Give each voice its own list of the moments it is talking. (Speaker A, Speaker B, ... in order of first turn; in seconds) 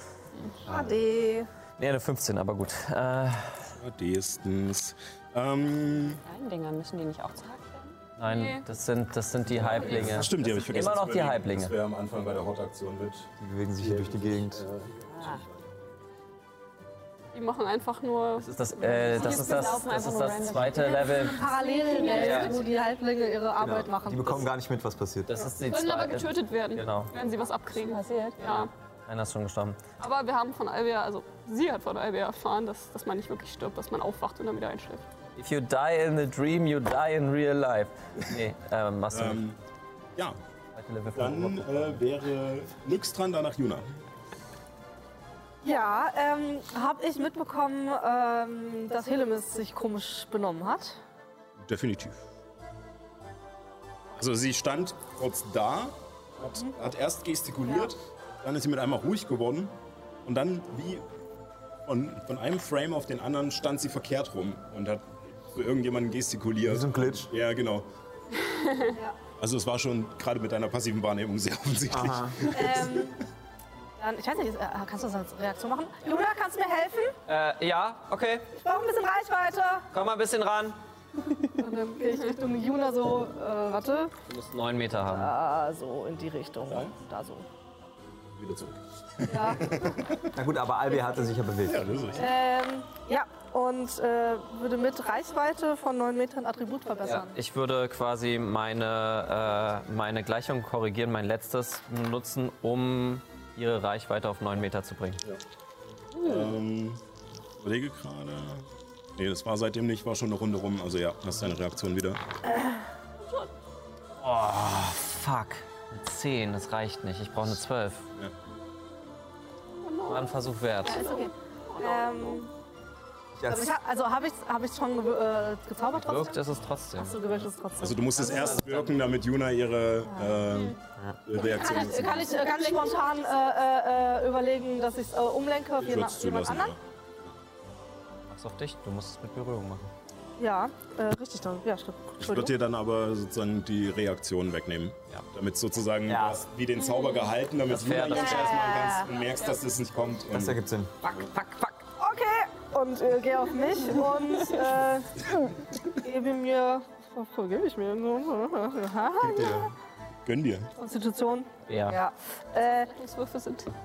Speaker A: 0.7-1.5, 21.2-24.5, 45.6-51.0, 72.5-73.2, 74.0-77.2, 78.6-79.9, 81.6-84.1, 85.1-87.5, 89.2-90.0, 92.2-97.3, 120.9-122.5, 123.5-128.6, 130.1-130.4, 131.4-136.8, 140.4-142.5, 152.0-159.7, 160.8-162.9
Speaker B: 1.8-3.7, 8.2-11.7, 18.4-21.5, 22.0-22.6, 25.3-27.1, 28.4-29.8, 35.4-39.4, 40.7-42.0, 77.3-78.5, 79.9-80.8, 84.3-85.3, 97.0-105.2, 114.2-118.1, 120.1-121.1, 126.0-127.2, 128.2-128.9, 138.3-139.9, 147.7-148.8, 151.1-151.8, 161.7-162.0
Speaker C: 3.8-6.2, 9.5-15.7, 39.1-39.6, 41.1-43.9, 51.6-52.2, 54.1-61.0, 61.9-67.9, 69.4-73.1, 86.7-86.9, 88.3-90.3, 91.7-92.3, 106.2-107.0, 107.6-112.2, 127.8-132.3, 135.8-136.8, 142.2-150.6, 160.2-160.7
Speaker D: 6.3-8.0, 18.8-21.2, 27.9-28.6
Speaker E: 8.2-8.7, 9.7-10.3, 17.3-19.9, 21.0-22.7, 25.6-28.7, 30.0-35.0, 113.2-113.5, 119.8-122.5, 162.6-163.7
Speaker F: 13.4-14.6, 24.0-25.4, 66.7-67.3, 71.9-72.5, 90.3-91.9, 123.4-123.7, 146.1-146.4, 150.3-151.0, 159.2-159.7